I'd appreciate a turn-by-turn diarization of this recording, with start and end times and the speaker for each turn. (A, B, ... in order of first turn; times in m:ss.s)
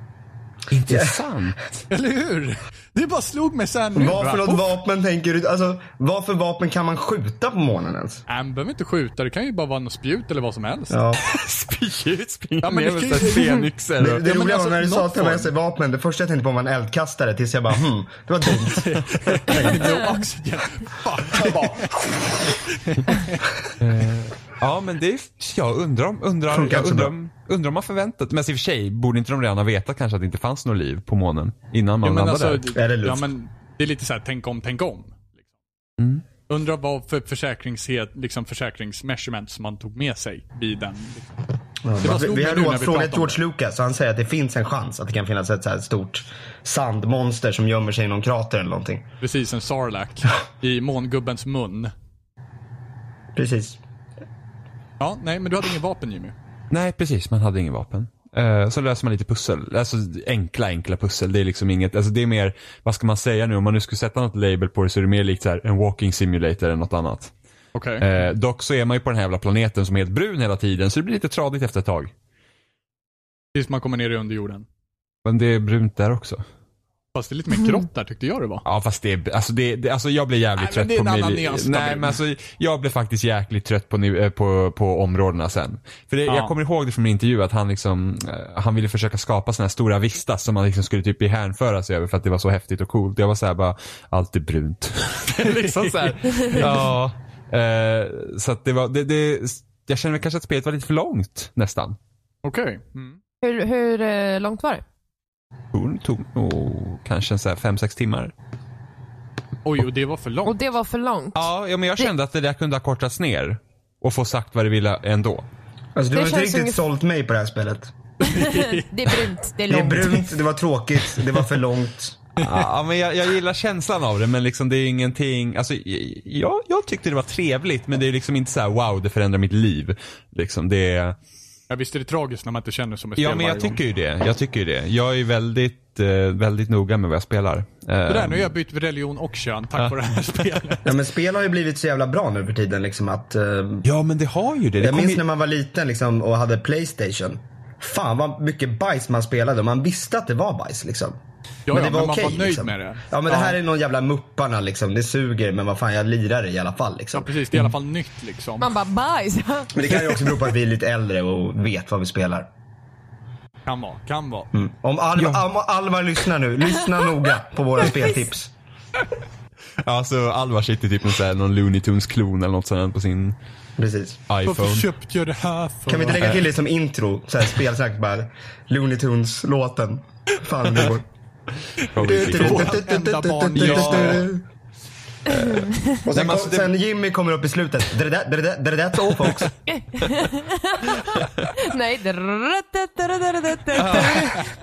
0:00.7-0:01.9 A
0:00.9-0:01.2 B
0:01.9-0:04.8 C
0:03.9-0:08.2 B
0:08.3-0:11.0 C
0:10.9-0:11.3 B
0:11.2-0:14.2 A
0:12.6-0:15.5 C
0:14.0-0:19.9 B
0:18.5-0:23.4 C
0:19.8-0:20.2 D
0:21.2-0:22.5 B
0:23.8-0:32.7 A
0:26.5-0:27.1 B
0:32.0-0:35.4 C
0:32.7-0:33.3 B
0:36.0-0:36.2 A
0:36.5-0:41.3 C
0:41.8-0:49.0 B
0:42.0-0:43.4 C
0:49.2-0:51.9 C
0:53.4-0:53.8 B
0:55.0-0:56.3 C
0:56.7-1:07.3 A
1:07.7-1:08.1 C
1:08.0-1:12.1 A
1:13.5-1:14.6 C
1:15.2-1:16.4 A
1:17.1-1:18.6 C
1:18.6-1:42.0 A
1:20.6-1:22.2 C
1:26.3-1:26.5 C
1:35.3-1:36.9 C
1:42.4-1:43.2 C
1:43.4-1:44.8 D
1:45.7-1:48.3 A
1:49.6-1:50.6 C
1:50.4-1:52.1 D
1:51.3-1:55.5 A
1:56.0-1:57.9 B
1:56.1-1:56.8 D
1:58.2-1:59.3 C
1:58.2-2:00.3 D
1:59.7-2:02.2 B
2:01.2-2:01.4 C
2:02.4-2:02.7 C
2:02.4-2:11.2 A
2:11.7-2:13.8 C
2:13.2-2:18.5 A
2:18.1-2:21.0 C
2:20.8-2:23.9 B
2:23.8-2:25.2 A
2:24.8-2:31.2 B
2:31.7-2:33.6 C
2:31.7-2:37.3 B
2:37.1-2:38.7 C
2:38.6-2:39.7 D
2:39.7-2:42.5 B
2:43.6-2:44.5 C
2:44.5-2:48.5 B
2:45.2-2:45.4 A
2:49.8-2:53.4 A
2:53.8-2:54.2 B
2:54.3-2:54.9 A
2:54.4-2:56.4 C
2:55.9-3:01.0 B
3:01.8-3:02.8 A
3:01.8-3:04.3 C
3:02.0-3:04.4 B
3:03.6-3:04.2 A
3:05.2-3:06.7 A
3:05.3-3:06.0 D
3:06.0-3:09.5 B
3:09.7-3:14.4 D
3:11.2-3:11.5 A
3:13.8-3:14.3 A
3:13.8-3:14.4 C